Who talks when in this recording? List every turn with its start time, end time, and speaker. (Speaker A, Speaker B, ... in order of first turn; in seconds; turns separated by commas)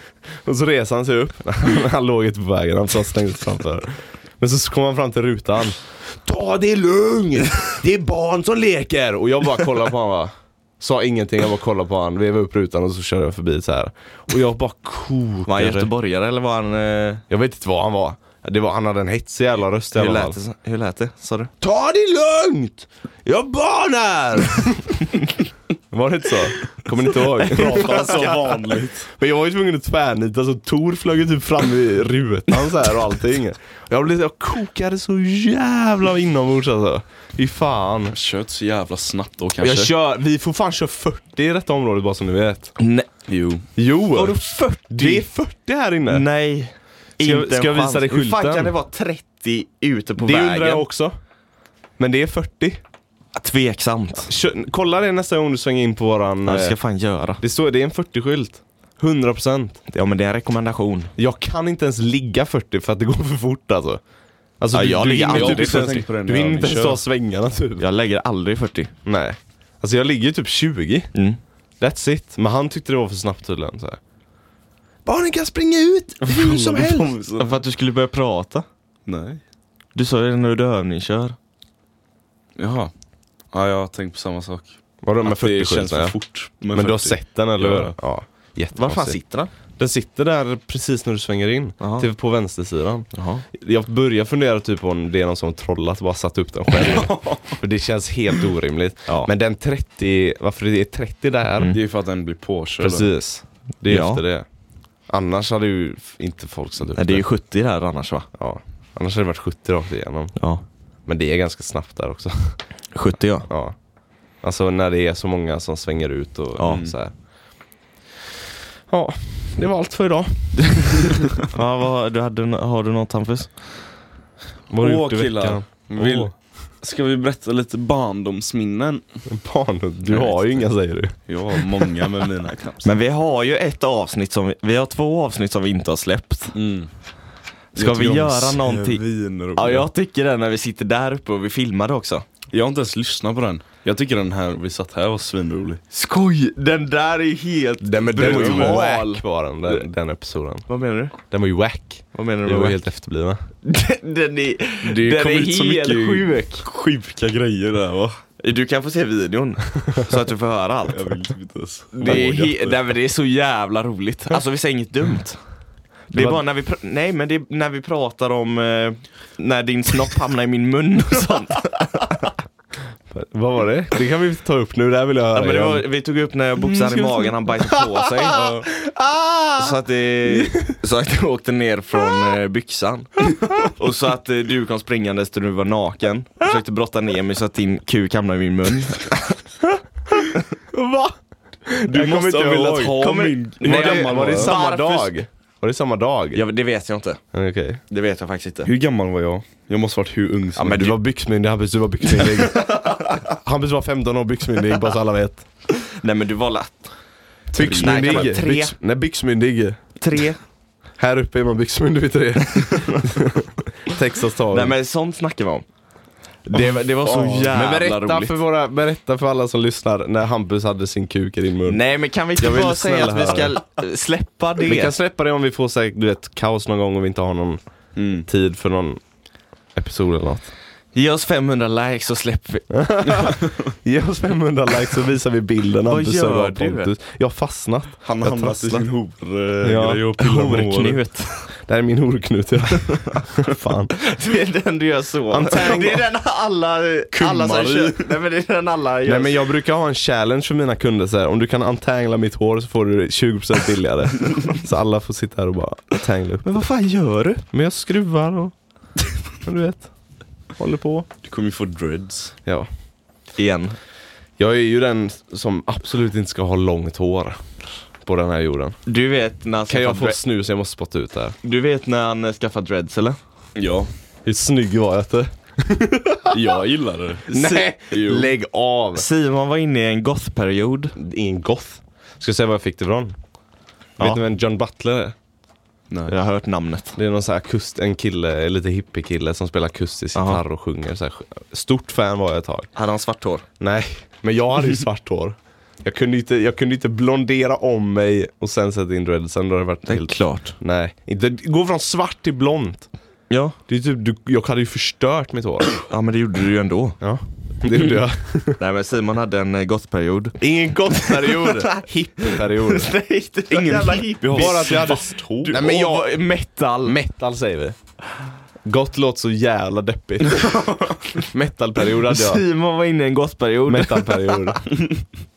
Speaker A: 0.4-15.9, Speaker B: 15.4-17.2, Speaker A: 17.3-20.4, Speaker B: 19.9-21.5, Speaker A: 21.6-25.1, Speaker A: 25.9-28.5, Speaker C: 27.5-29.1, Speaker B: 27.8-28.3, Speaker A: 29.1-38.1, Speaker C: 38.1-39.9, Speaker A: 39.6-42.7, Speaker B: 42.8-43.1, Speaker C: 43.3-43.6, Speaker A: 43.8-44.4, Speaker B: 44.1-45.2, Speaker A: 44.9-46.2, Speaker B: 46.1-50.8, Speaker A: 47.2-48.7, Speaker A: 50.2-51.1, Speaker A: 52.0-52.8, Speaker B: 53.4-54.3, Speaker A: 54.3-56.8, Speaker B: 56.5-57.4, Speaker A: 57.4-59.8, Speaker B: 59.9-61.1, Speaker A: 61.2-64.0, Speaker A: 64.6-67.8, Speaker B: 64.7-66.0, Speaker C: 65.2-67.0, Speaker B: 67.8-68.9, Speaker A: 69.0-71.1, Speaker B: 71.1-71.4, Speaker A: 71.8-74.0, Speaker A: 75.0-77.1, Speaker C: 76.2-77.6, Speaker B: 77.4-78.6, Speaker C: 79.0-79.4, Speaker B: 79.9-81.3, Speaker C: 82.6-82.9, Speaker C: 83.5-87.9, Speaker A: 85.0-86.2, Speaker A: 86.7-89.2, Speaker B: 88.7-89.5, Speaker A: 89.7-101.8, Speaker B: 91.8-92.1, Speaker B: 93.1-93.4, Speaker C: 96.8-97.6, Speaker C: 101.7-103.1, Speaker A: 102.8-104.5, Speaker B: 103.9-104.2, Speaker A: 105.1-107.2, Speaker B: 107.0-108.3, Speaker A: 108.3-110.3, Speaker B: 110.4-110.6, Speaker A: 111.0-112.6, Speaker B: 112.9-113.5, Speaker A: 113.5-113.7, Speaker A: 114.4-117.1, Speaker C: 116.7-116.9, Speaker A: 118.9-121.2, Speaker B: 121.5-123.6, Speaker A: 124.7-126.3, Speaker C: 124.7-129.0, Speaker A: 129.3-131.7, Speaker C: 131.3-132.9, Speaker B: 132.8-136.5, Speaker C: 136.5-136.9, Speaker B: 137.7-139.0, Speaker C: 137.7-139.9, Speaker B: 139.5-142.2, Speaker C: 142.5-145.8, Speaker B: 145.9-149.8, Speaker A: 147.8-150.7, Speaker C: 148.2-148.8, Speaker B: 150.7-151.1, Speaker A: 151.2-153.4, Speaker B: 152.1-152.8, Speaker B: 153.6-156.6, Speaker C: 154.8-158.2, Speaker B: 158.4-161.1, Speaker C: 160.9-162.8, Speaker B: 161.9-165.4, Speaker B: 166.1-172.3, Speaker A: 166.1-166.4, Speaker A: 173.1-175.8, Speaker B: 175.3-178.4, Speaker C: 176.8-177.3, Speaker A: 177.7-180.7, Speaker C: 178.3-178.7, Speaker B: 179.6-189.4, Speaker A: 190.7-191.1, Speaker A: 191.7-193.0, Speaker C: 191.9-194.6, Speaker B: 192.9-195.1, Speaker A: 193.6-196.4, Speaker B: 196.3-197.2, Speaker A: 197.3-197.8, Speaker B: 197.9-198.7, Speaker C: 198.6-200.9, Speaker A: 200.6-205.4, Speaker B: 200.6-200.9, Speaker B: 202.2-203.1, Speaker B: 205.8-206.9, Speaker C: 207.5-208.3, Speaker A: 207.5-209.8, Speaker B: 207.6-208.7, Speaker B: 210.0-210.4, Speaker A: 211.0-214.7, Speaker B: 214.5-215.7, Speaker B: 216.4-218.3, Speaker C: 217.1-217.4, Speaker A: 217.3-221.8, Speaker B: 221.7-224.9, Speaker A: 222.4-223.6, Speaker A: 224.6-227.6, Speaker C: 227.9-228.3, Speaker A: 228.2-229.0, Speaker A: 229.7-230.5, Speaker B: 230.9-232.7, Speaker A: 232.7-238.9, Speaker B: 235.9-236.9, Speaker C: 238.0-241.0, Speaker A: 239.6-240.1, Speaker B: 240.2-241.5, Speaker A: 241.6-243.9, Speaker B: 242.9-243.2, Speaker B: 244.0-249.4, Speaker A: 245.3-246.1, Speaker C: 247.1-248.1, Speaker A: 249.1-256.5, Speaker B: 256.4-257.4, Speaker A: 257.5-258.5, Speaker A: 259.4-259.9, Speaker A: 260.6-261.1, Speaker C: 261.2-262.3, Speaker B: 263.4-263.8, Speaker A: 264.4-267.4, Speaker A: 268.0-268.8, Speaker B: 268.9-270.2, Speaker A: 269.7-271.4, Speaker B: 271.4-273.2, Speaker C: 273.6-273.9, Speaker A: 274.2-276.4, Speaker C: 276.3-278.3, Speaker A: 277.3-279.1, Speaker B: 278.9-280.9, Speaker A: 280.9-283.1, Speaker A: 284.0-285.1, Speaker C: 285.9-286.1, Speaker B: 286.1-286.9, Speaker A: 286.9-292.7, Speaker B: 290.1-290.4, Speaker B: 292.7-293.4, Speaker A: 293.6-302.9, Speaker B: 299.9-300.5, Speaker B: 303.3-303.6, Speaker A: 303.7-305.7, Speaker B: 305.9-307.0, Speaker A: 307.0-308.6, Speaker B: 308.6-310.4, Speaker A: 310.4-312.9, Speaker B: 310.9-317.0, Speaker C: 313.5-315.6, Speaker A: 314.3-316.1, Speaker A: 316.8-317.8, Speaker A: 318.6-320.6, Speaker A: 321.2-322.4, Speaker B: 322.1-324.6, Speaker A: 323.7-324.6